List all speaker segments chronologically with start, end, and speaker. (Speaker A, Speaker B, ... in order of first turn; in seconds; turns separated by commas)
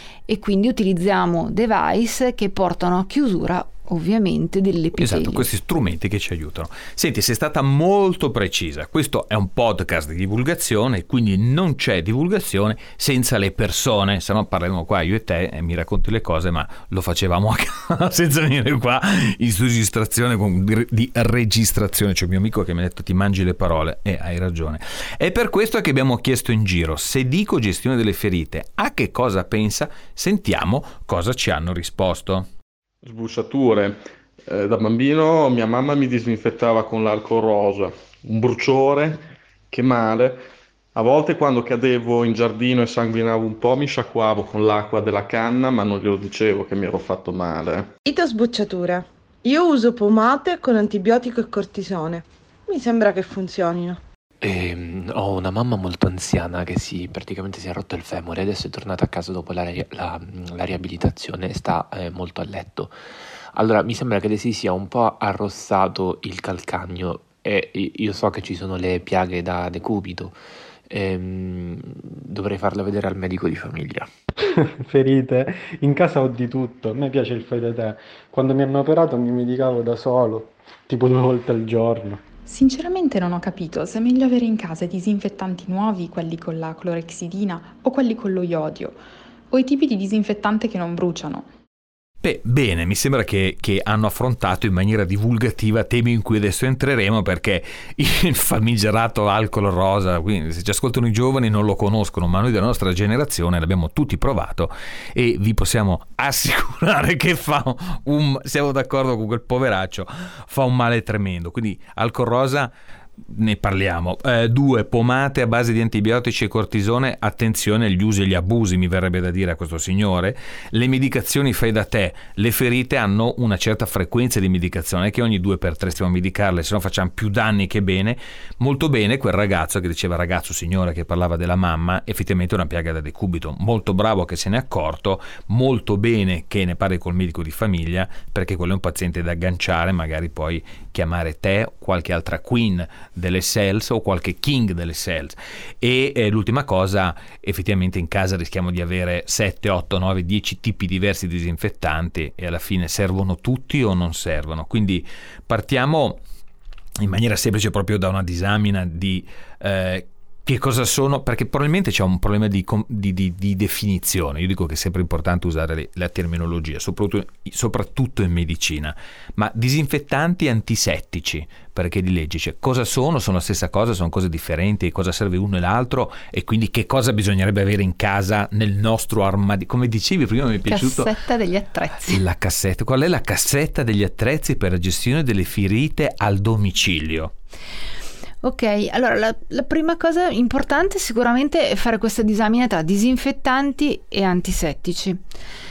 Speaker A: 0.3-5.5, Speaker B: 5.0-32.5, Speaker C: 33.0-40.4, Speaker C: 40.9-47.9, Speaker D: 48.0-54.0, Speaker E: 54.4-63.0, Speaker E: 63.5-74.1, Speaker F: 74.5-82.3, Speaker G: 82.4-91.5, Speaker B: 92.2-156.2, Speaker B: 157.0-181.1, Speaker A: 180.7-182.2, Speaker B: 182.1-187.3, Speaker A: 188.4-195.2